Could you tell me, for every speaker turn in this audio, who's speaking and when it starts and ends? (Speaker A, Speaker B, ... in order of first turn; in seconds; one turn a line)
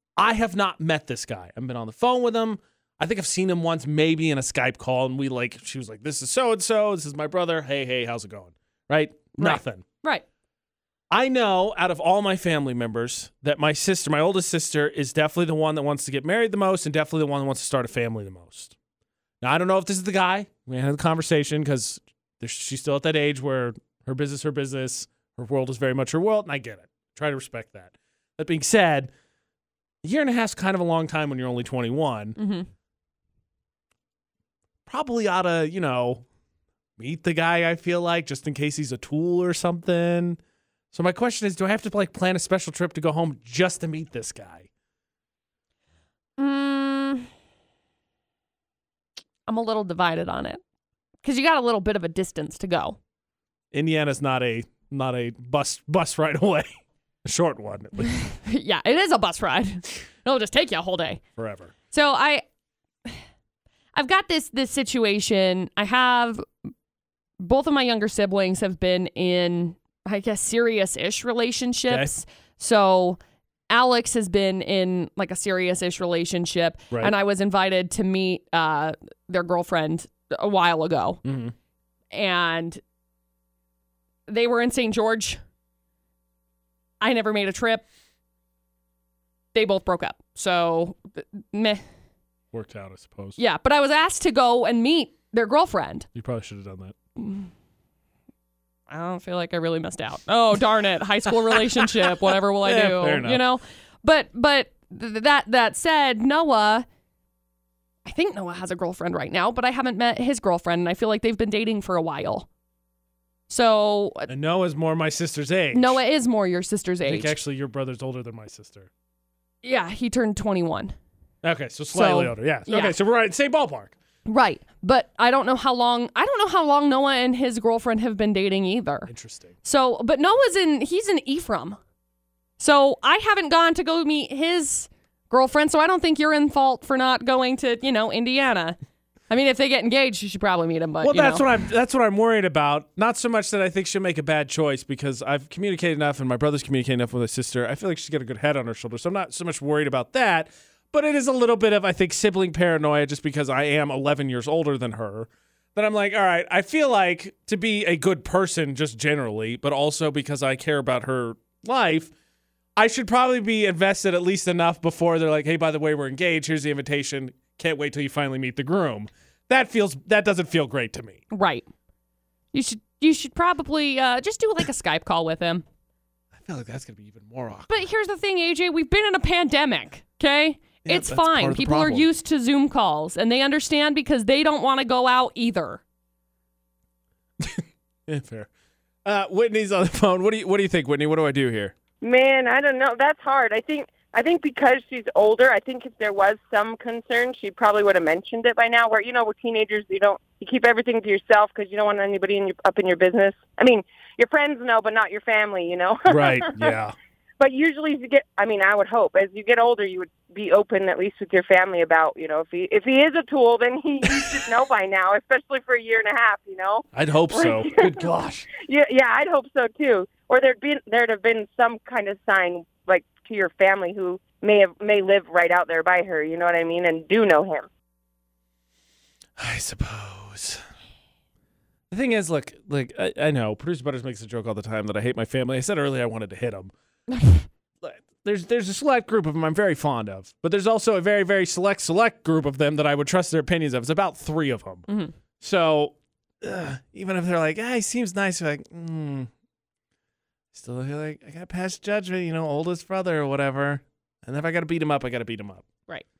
Speaker A: 0.2-9.8
Speaker B: 9.4-10.2
Speaker A: 11.1-18.7
Speaker A: 19.4-29.1
Speaker A: 30.0-32.4
Speaker B: 32.4-32.7
Speaker A: 34.9-36.2
Speaker A: 37.0-40.4
Speaker A: 40.9-44.7
Speaker B: 46.4-47.3
Speaker B: 49.5-50.6
Speaker B: 51.2-53.0
Speaker A: 53.7-56.7
Speaker A: 57.2-58.2
Speaker B: 58.1-61.2
Speaker A: 61.4-61.7
Speaker B: 61.9-62.4
Speaker B: 63.9-66.4
Speaker B: 67.4-73.2
Speaker B: 73.7-81.2
Speaker A: 81.2-81.5
Speaker B: 82.1-82.8
Speaker B: 84.3-85.4
Speaker B: 87.0-87.8
Speaker B: 89.5-91.8
Speaker A: 92.5-93.4
Speaker B: 93.4-96.1
Speaker A: 96.1-96.9
Speaker B: 97.2-97.5
Speaker B: 98.9-106.8
Speaker A: 101.7-103.4
Speaker B: 108.0-112.5
Speaker B: 113.5-114.3
Speaker A: 114.3-116.0
Speaker B: 115.7-117.3
Speaker A: 117.0-118.9
Speaker B: 119.6-120.9
Speaker A: 121.4-123.9
Speaker B: 121.9-122.9
Speaker B: 124.2-129.1
Speaker A: 129.1-129.5
Speaker B: 129.6-131.8
Speaker B: 132.6-138.8
Speaker B: 139.3-141.5
Speaker A: 141.0-162.1
Speaker A: 162.8-171.2
Speaker B: 171.3-171.7
Speaker B: 172.5-175.6
Speaker A: 176.3-177.8
Speaker B: 177.7-185.8
Speaker A: 180.8-182.1
Speaker A: 187.4-188.5
Speaker A: 189.0-191.7
Speaker C: 192.0-206.6
Speaker A: 206.1-206.9
Speaker C: 207.4-227.7
Speaker A: 216.9-218.5
Speaker A: 229.4-230.6
Speaker A: 231.9-236.7
Speaker B: 237.1-237.4
Speaker A: 237.8-244.9
Speaker B: 244.9-245.1
Speaker A: 245.4-249.3
Speaker A: 250.5-255.7